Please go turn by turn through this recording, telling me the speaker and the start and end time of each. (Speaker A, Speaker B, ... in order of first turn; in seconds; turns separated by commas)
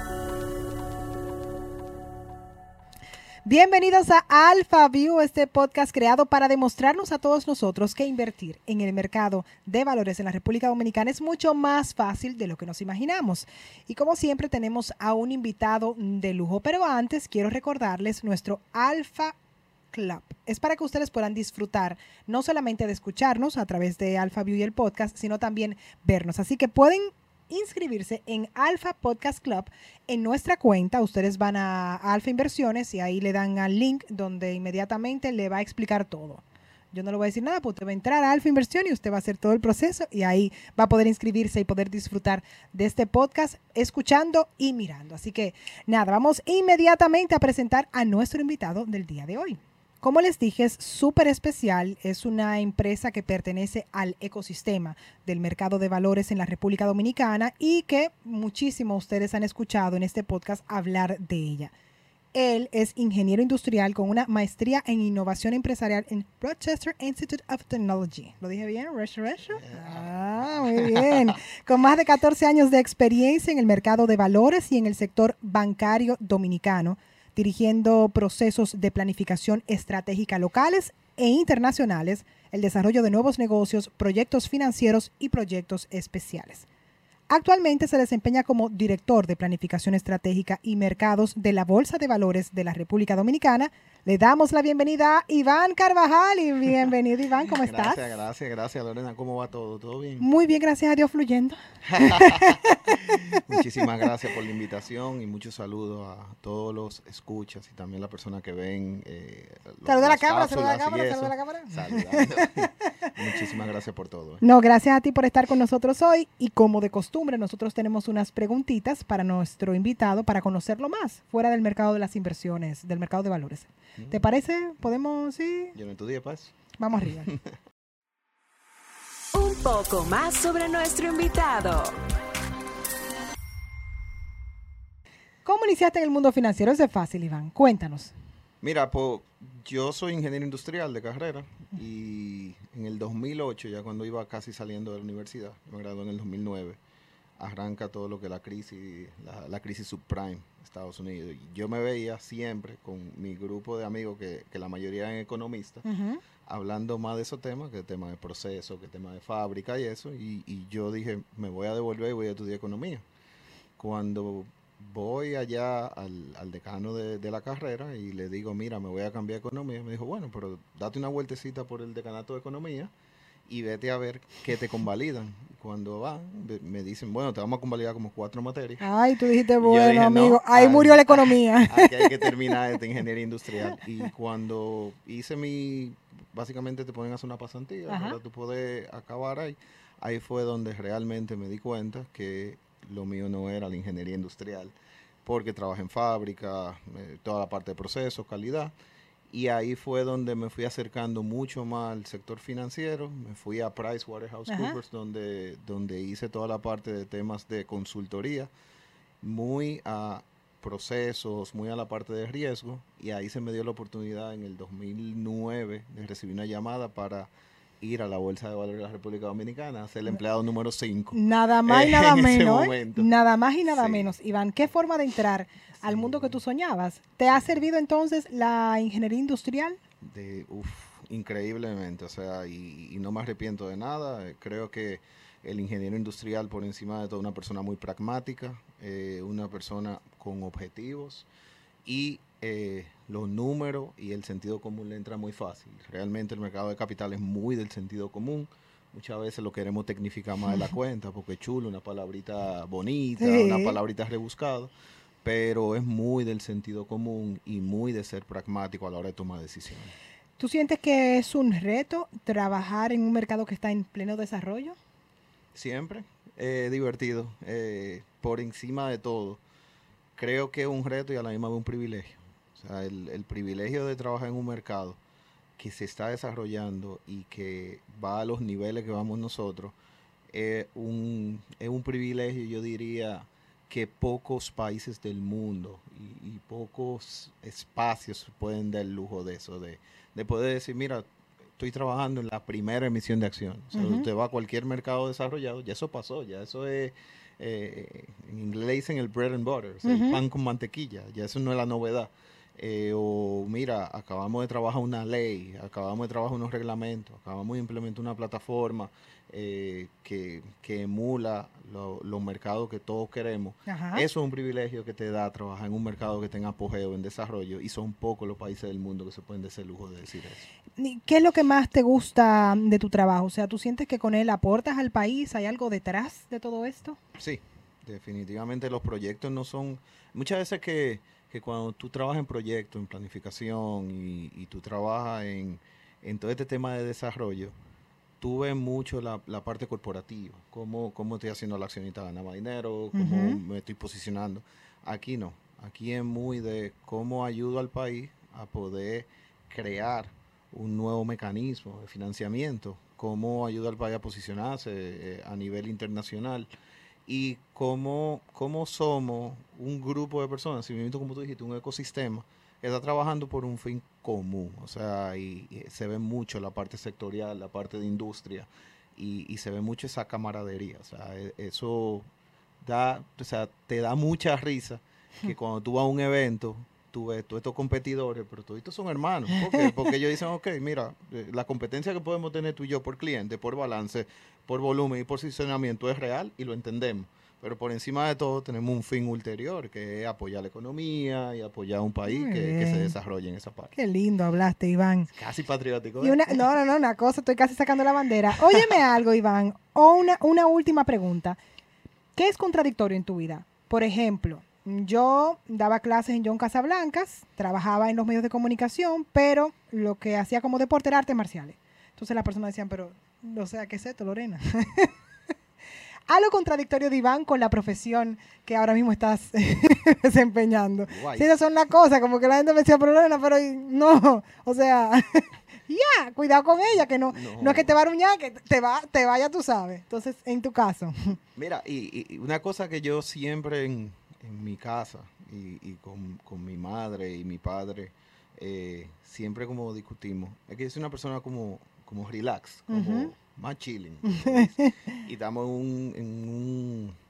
Speaker A: 3.5-19.4, Speaker A: 19.9-61.7, Speaker A: 62.3-86.7, Speaker B: 69.5-71.3, Speaker A: 87.3-98.2, Speaker B: 97.4-100.3, Speaker A: 100.2-103.6, Speaker B: 101.8-114.4, Speaker A: 109.8-112.9, Speaker A: 114.4-125.8, Speaker B: 124.0-124.3, Speaker B: 125.7-126.5, Speaker A: 126.8-127.3, Speaker C: 129.3-131.9, Speaker A: 135.4-138.1, Speaker B: 138.6-146.8, Speaker B: 147.4-155.8, Speaker A: 155.8-156.2, Speaker B: 156.4-163.0, Speaker B: 163.8-172.9, Speaker B: 173.5-178.8, Speaker A: 178.8-182.3, Speaker B: 179.6-194.7, Speaker A: 187.9-188.2, Speaker B: 195.2-198.7, Speaker B: 199.3-208.5, Speaker A: 204.5-204.8, Speaker B: 209.2-217.3, Speaker B: 217.8-223.1, Speaker A: 221.1-229.8, Speaker B: 223.7-224.1, Speaker B: 225.8-226.4, Speaker B: 230.0-241.3, Speaker B: 241.8-254.7, Speaker A: 253.2-253.8, Speaker B: 255.2-259.9, Speaker A: 260.4-264.8, Speaker B: 265.5-269.4, Speaker B: 270.2-275.0, Speaker B: 275.6-279.8, Speaker B: 280.3-320.5, Speaker A: 293.7-294.1, Speaker A: 299.9-300.2, Speaker A: 313.7-314.1, Speaker A: 320.8-327.0, Speaker B: 327.2-337.5, Speaker B: 338.2-356.5, Speaker A: 342.9-343.4, Speaker B: 357.1-372.1, Speaker B: 372.6-393.7, Speaker A: 392.1-392.9, Speaker A: 393.7-395.1, Speaker B: 395.1-396.4, Speaker A: 396.0-401.4, Speaker A: 402.2-414.9, Speaker A: 416.1-431.2, Speaker B: 420.9-421.3, Speaker B: 426.7-427.7, Speaker B: 431.4-447.0, Speaker A: 442.7-443.1, Speaker A: 444.1-445.0